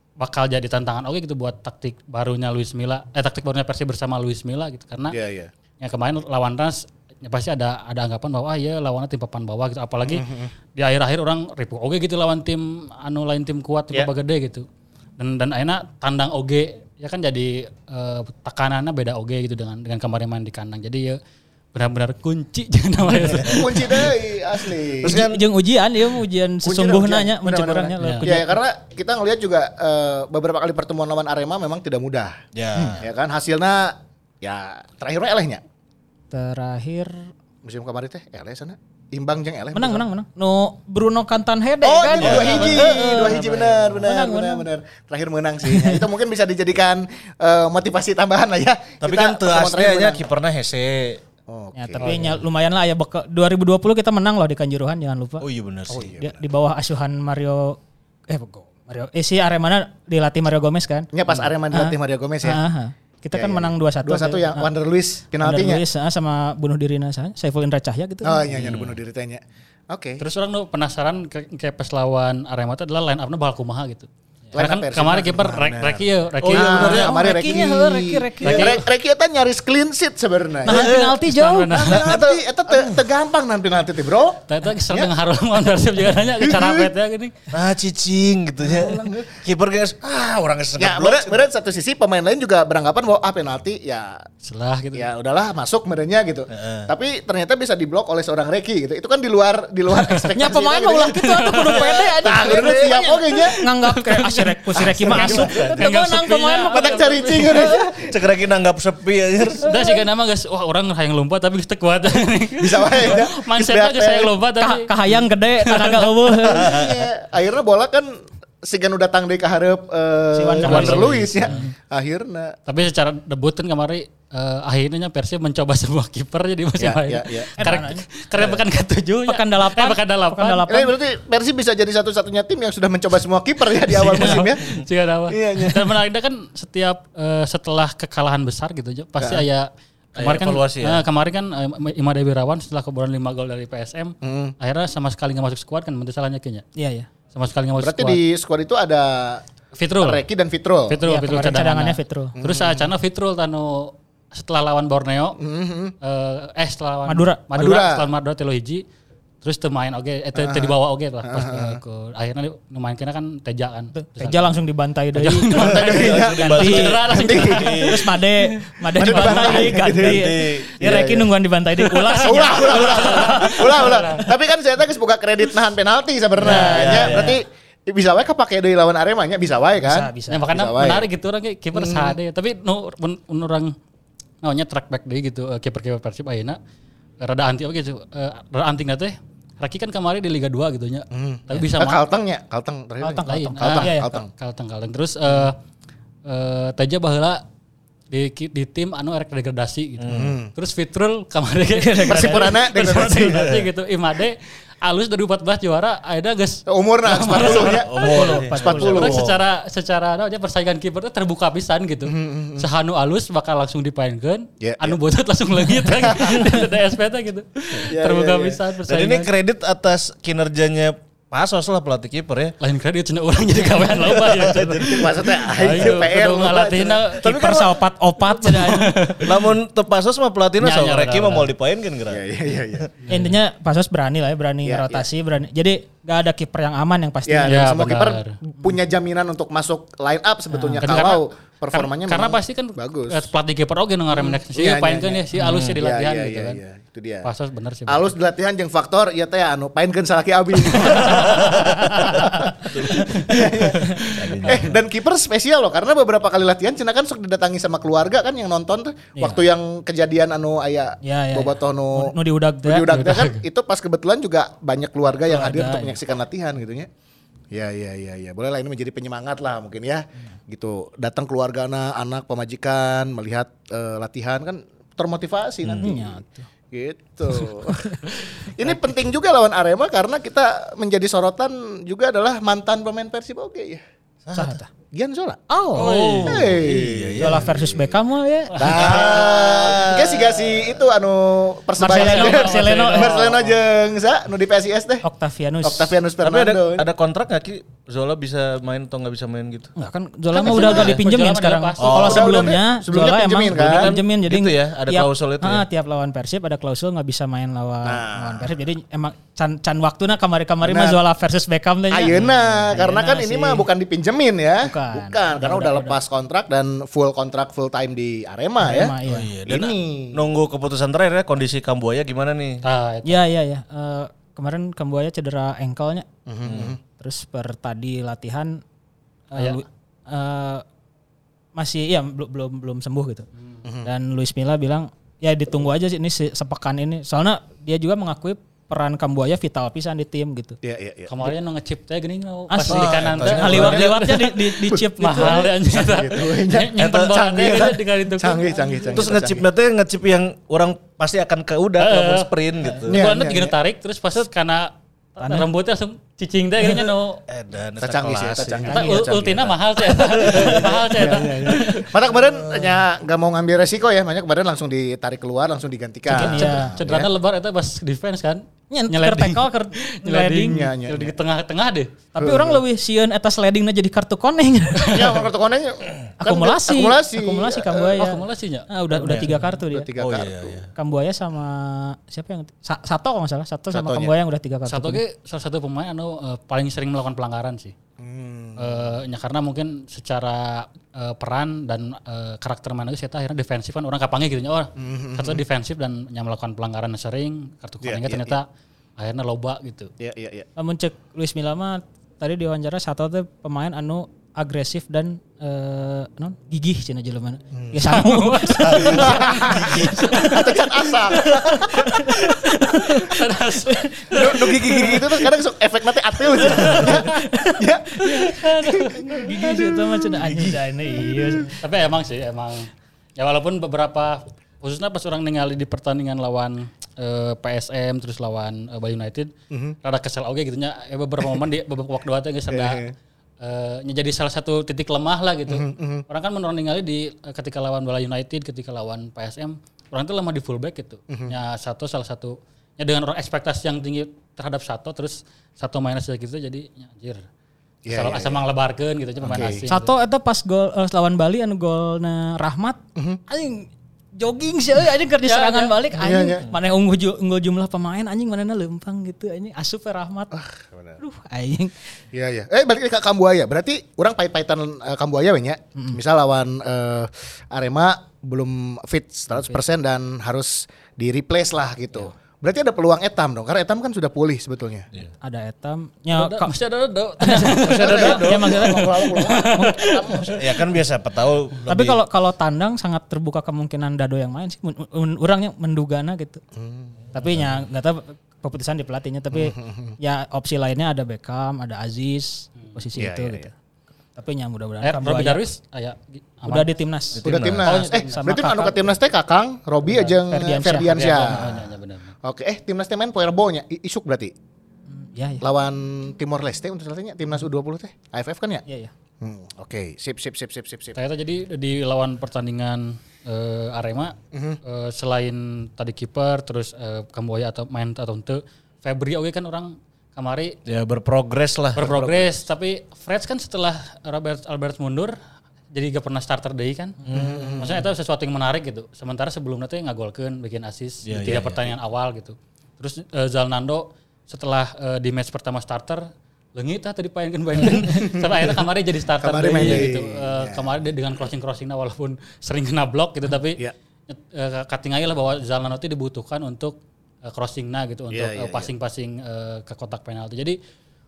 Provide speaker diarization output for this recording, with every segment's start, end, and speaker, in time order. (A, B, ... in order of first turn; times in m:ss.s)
0:00.2-0:05.2 A
0:05.1-0:05.5 B
0:05.8-0:14.7 A
0:10.0-0:10.5 B
0:15.2-0:21.2 A
0:21.7-0:24.1 A
0:23.2-0:23.7 C
0:23.4-0:25.2 B
0:25.0-0:25.4 C
0:25.0-0:28.6 D
0:26.6-0:32.4 B
0:28.0-0:28.3 A
0:32.6-0:33.0 C
0:32.9-0:35.6 B
0:36.3-0:37.3 D
0:37.6-0:40.1 B
0:39.7-0:43.4 D
0:41.8-0:50.2 B
0:42.2-0:44.0 C
0:44.0-0:44.7 D
0:45.7-0:46.0 D
0:49.0-0:51.2 C
0:51.5-0:52.2 B
0:51.8-0:55.4 D
0:55.4-0:56.1 C
0:55.9-0:56.4 B
0:56.2-0:57.8 D
0:58.3-1:01.1 D
1:01.1-1:02.6 B
1:01.7-1:04.7 D
1:03.3-1:05.8 B
1:05.4-1:08.4 D
1:08.2-1:10.2 B
1:08.5-1:09.0 C
1:10.2-1:17.0 A
1:14.5-1:20.9 B
1:16.4-1:17.2 C
1:16.5-1:18.8 D
1:18.4-1:18.8 A
1:20.6-1:21.8 D
1:20.7-1:21.2 C
1:21.3-1:22.0 A
1:21.7-1:25.1 B
1:21.8-1:22.4 C
1:24.5-1:27.4 A
1:26.4-1:26.9 B
1:27.5-1:31.4 C
1:28.6-1:29.4 B
1:30.8-1:34.3 B
1:34.4-1:35.1 A
1:34.9-1:43.6 B
1:36.5-1:36.9 C
1:40.0-1:40.3 A
1:40.4-1:47.0 D
1:41.1-1:42.2 A
1:43.3-1:47.7 A
1:44.8-1:45.5 B
1:46.7-1:48.2 B
1:48.0-1:49.7 C
1:49.6-1:50.0 B
1:49.6-1:56.1 A
1:52.6-1:54.3 B
1:54.6-1:56.8 D
1:56.4-1:57.0 C
1:56.5-2:02.6 B
2:00.4-2:01.2 D
2:00.6-2:01.7 A
2:02.7-2:10.6 A
2:06.8-2:07.5 B
2:07.6-2:08.0 D
2:09.3-2:10.9 D
2:10.7-2:14.6 B
2:13.9-2:26.6 A
2:15.3-2:15.9 B
2:19.2-2:19.4 B
2:20.2-2:21.0 C
2:24.2-2:24.5 B
2:26.8-2:27.1 D
2:27.3-2:28.2 A
2:27.8-2:29.4 B
2:29.8-2:30.2 A
2:30.0-2:31.0 B
2:30.9-2:35.4 A
2:31.0-2:32.4 D
2:32.4-2:32.9 B
2:35.4-2:36.0 B
2:36.0-2:38.8 A
2:37.1-2:37.4 D
2:37.5-2:38.1 B
2:39.4-2:44.5 A
2:40.4-2:41.8 B
2:43.9-2:45.6 D
2:45.2-2:47.9 A
2:45.6-2:47.7 B
2:45.6-2:48.2 C
2:46.6-2:47.0 D
2:47.8-2:53.6 D
2:49.0-2:51.3 B
2:49.2-2:51.3 C
2:52.2-3:01.1 B
2:52.5-2:53.6 C
2:52.7-2:54.3 A
2:56.4-2:57.4 D
2:56.4-2:57.4 C
2:59.8-3:00.5 D
3:00.3-3:03.8 A
3:01.7-3:02.2 B
3:04.4-3:06.6 A
3:07.2-3:12.0 A
3:11.1-3:14.3 B
3:13.0-3:14.1 D
3:13.3-3:15.6 A
3:16.3-3:17.4 A
3:18.1-3:39.3 A
3:20.0-3:20.4 C
3:20.1-3:20.5 B
3:22.0-3:23.7 C
3:22.0-3:23.5 B
3:26.7-3:29.2 B
3:27.3-3:29.4 C
3:28.1-3:29.0 D
3:32.1-3:32.7 B
3:34.6-3:35.0 B
3:35.9-3:36.5 B
3:37.9-3:38.6 B
3:38.9-3:42.6 C
3:42.6-3:47.2 A
3:43.8-3:45.1 C
3:44.9-3:47.0 B
3:47.2-3:47.9 C
3:47.2-3:49.2 D
3:48.4-3:49.3 A
3:49.2-3:52.9 C
3:50.6-3:51.5 A
3:52.1-3:52.9 B
3:53.1-3:57.6 D
3:54.6-3:55.1 B
3:57.3-4:03.3 B
3:57.4-3:58.4 A
4:00.5-4:01.1 D
4:00.8-4:06.6 A
4:04.1-4:07.3 B
4:05.4-4:05.7 C
4:05.4-4:05.7 D
4:07.2-4:08.0 A
4:07.9-4:26.9 B
4:10.7-4:12.4 A
4:10.8-4:14.8 C
4:12.9-4:14.6 A
4:19.2-4:19.4 D
4:21.0-4:23.0 D
4:22.9-4:23.4 A
4:25.2-4:26.0 D
4:27.5-4:43.8 B
4:35.6-4:35.9 C
4:35.8-4:36.5 D
4:37.7-4:37.9 D
4:44.2-4:44.6 C
4:44.4-4:44.7 D
4:44.9-4:45.4 B
4:45.5-4:46.4 D
4:45.8-4:47.8 C
4:45.8-4:46.4 A
4:46.2-4:47.8 B
4:47.2-4:48.6 D
4:48.6-4:55.0 B
4:48.7-4:50.8 C
4:51.8-4:53.3 D
4:51.8-4:53.4 A
4:55.0-4:56.0 D
4:55.6-4:56.9 B
4:56.2-4:59.7 C
4:59.8-5:13.7 D
5:00.3-5:01.0 B
5:00.4-5:02.3 A
5:01.8-5:02.6 C
5:01.9-5:04.0 B
5:03.6-5:05.7 C
5:07.8-5:08.6 B
5:10.6-5:11.0 B
5:11.9-5:20.2 B
5:12.1-5:12.4 C
5:14.6-5:16.0 D
5:18.6-5:19.3 D
5:19.0-5:22.6 C
5:22.6-5:23.2 A
5:23.1-5:26.1 D
5:26.3-5:26.8 B
5:26.5-5:26.8 C
5:26.9-5:28.6 D
5:29.3-5:30.6 D
5:29.4-5:29.6 A
5:31.6-5:33.3 D
5:33.6-5:33.9 B
5:33.8-5:40.6 D
5:40.6-5:41.3 B
5:41.1-5:48.8 A
5:42.5-5:45.4 D
5:42.6-5:44.3 C
5:43.2-5:49.5 B
5:46.8-5:47.6 C
5:48.9-5:53.0 C
5:51.8-5:52.3 A
5:52.8-5:57.2 A
5:52.8-5:53.6 B
5:55.2-5:55.5 D
5:57.3-5:58.9 C
5:57.8-5:59.6 B
5:58.7-6:01.9 A
6:00.0-6:00.6 C
6:00.2-6:07.1 B
6:02.3-6:02.8 C
6:06.1-6:06.7 D
6:06.1-6:11.9 A
6:08.7-6:10.7 D
6:10.4-6:11.1 B
6:12.1-6:15.0 D
6:12.2-6:12.6 B
6:14.9-6:18.2 B
6:16.2-6:19.9 D
6:18.0-6:18.7 A
6:18.9-6:19.3 C
6:19.3-6:20.6 B
6:20.0-6:20.7 C
6:20.8-6:25.0 D
6:23.7-6:24.2 B
6:24.7-6:27.7 A
6:28.0-6:29.0 B
6:28.6-6:38.5 A
6:34.8-6:35.4 B
6:37.8-6:38.4 B
6:39.0-6:39.9 A
6:40.0-6:40.5 B
6:40.6-6:50.6 D
6:47.5-6:47.9 B
6:47.8-6:50.5 A
6:48.7-6:52.0 B
6:51.3-6:55.0 A
6:51.8-6:55.0 D
6:54.1-6:59.9 B
6:56.3-6:57.1 A
6:56.7-6:58.4 D
6:58.0-6:59.5 A
6:59.0-7:01.6 D
7:00.2-7:00.5 C
7:01.5-7:09.3 A
7:09.5-7:09.8 B
7:09.8-7:12.8 A
7:12.5-7:12.9 B
7:13.4-7:27.3 A
7:15.5-7:16.0 B
7:27.8-7:28.5 B
7:27.9-7:29.9 A
7:29.2-7:29.7 B
7:29.7-7:33.7 D
7:33.0-7:33.2 B
7:34.2-7:40.3 D
7:35.2-7:35.8 A
7:35.9-7:36.5 B
7:40.3-7:41.0 B
7:41.0-7:42.0 D
7:42.1-7:54.9 B
7:55.2-7:56.5 D
7:56.1-8:00.3 A
7:57.2-7:59.9 D
7:57.5-7:58.8 C
7:57.8-8:00.4 B
8:00.4-8:02.0 C
8:01.7-8:06.4 D
8:06.6-8:06.9 B
8:07.1-8:13.5 D
8:07.2-8:07.5 C
8:09.3-8:10.0 B
8:13.0-8:13.5 B
8:14.2-8:15.4 D
8:14.8-8:16.7 A
8:16.5-8:18.9 D
8:17.2-8:17.8 C
8:17.2-8:21.5 B
8:17.7-8:18.3 A
8:19.9-8:20.2 A
8:20.3-8:21.1 D
8:21.0-8:22.1 A
8:22.2-8:24.3 B
8:24.9-8:25.4 D
8:25.4-8:28.6 B
8:28.7-8:28.9 D
8:29.2-8:31.0 B
8:31.0-8:40.6 A
8:34.3-8:34.6 B
8:40.7-8:42.4 C
8:41.8-8:45.2 A
8:45.7-8:47.0 A
8:47.1-8:47.5 C
8:47.1-8:47.8 B
8:47.6-9:10.6 A
8:51.1-8:51.7 C
8:57.6-8:58.5 B
8:59.2-9:00.7 B
9:08.1-9:08.7 B